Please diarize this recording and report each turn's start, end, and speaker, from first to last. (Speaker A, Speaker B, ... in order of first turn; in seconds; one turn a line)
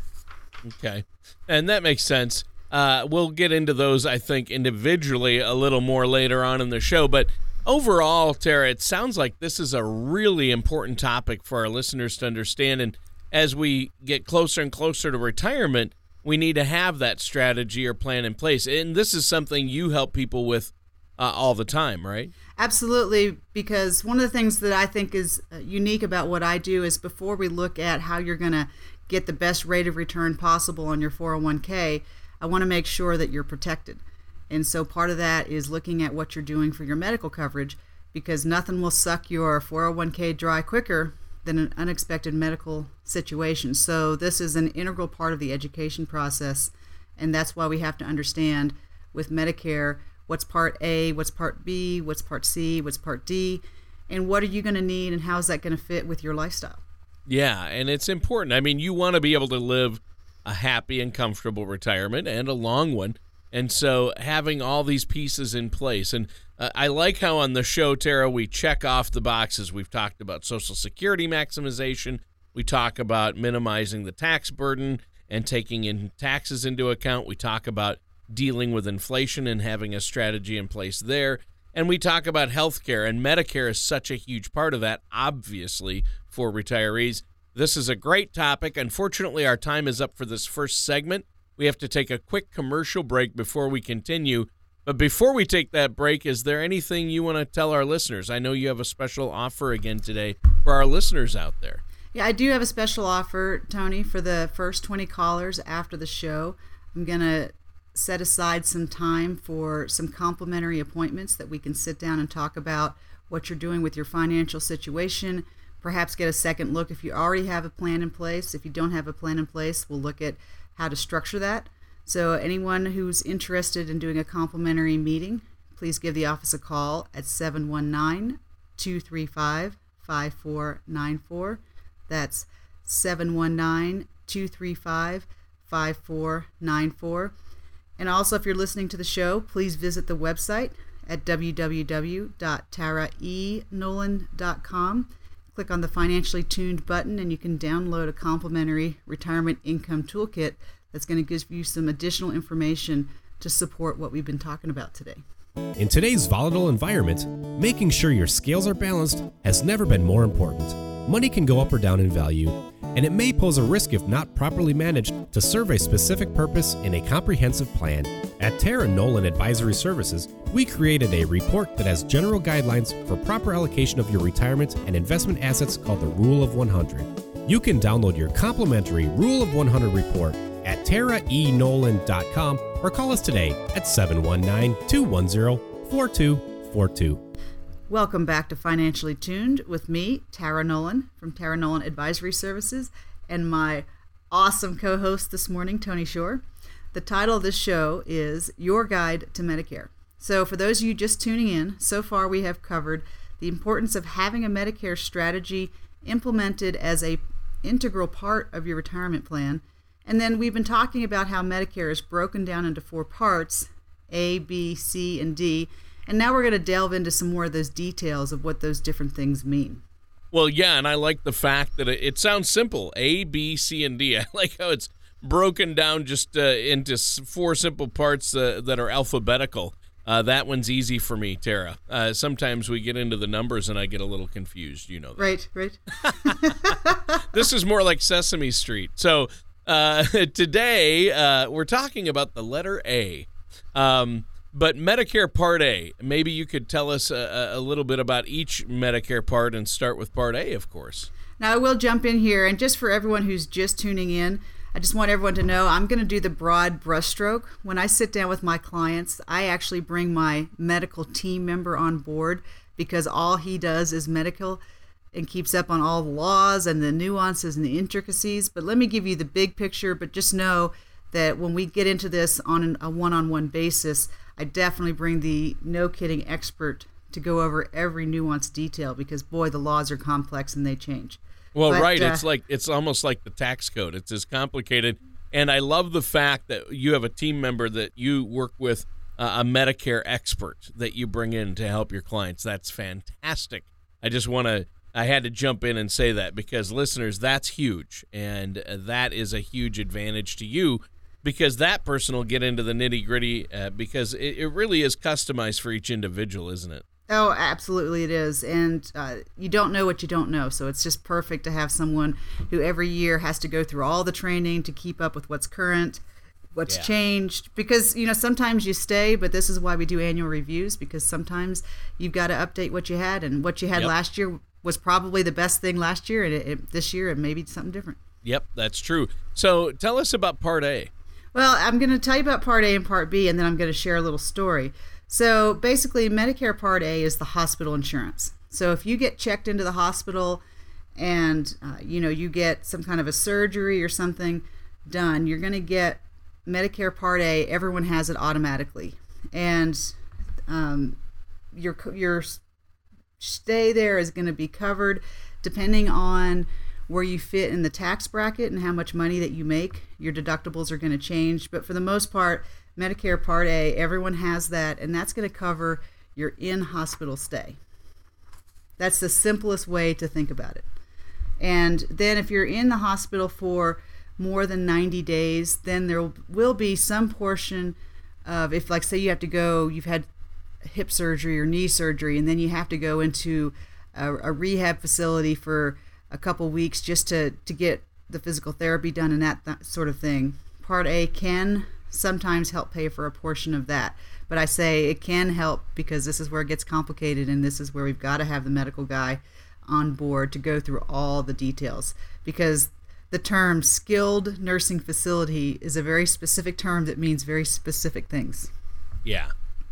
Speaker A: 0.7-22.3
Speaker B: 22.6-56.8
Speaker A: 57.3-101.8
Speaker B: 102.1-137.3
Speaker B: 138.0-155.2
Speaker C: 155.8-187.2
Speaker B: 187.9-196.4
Speaker B: 196.9-219.8
Speaker A: 220.3-235.3
Speaker B: 235.2-237.2
Speaker A: 236.0-251.1
Speaker B: 251.4-264.6
Speaker B: 265.1-282.2
Speaker A: 281.6-306.8
Speaker B: 307.1-316.0
Speaker B: 316.5-328.0
Speaker A: 328.2-330.9
Speaker B: 331.3-340.4
Speaker B: 341.0-349.9
Speaker B: 350.5-351.0
Speaker B: 351.5-352.4
Speaker B: 353.2-367.6
Speaker B: 368.8-370.6
Speaker B: 371.4-380.1
Speaker B: 380.6-408.5
Speaker A: 409.1-409.3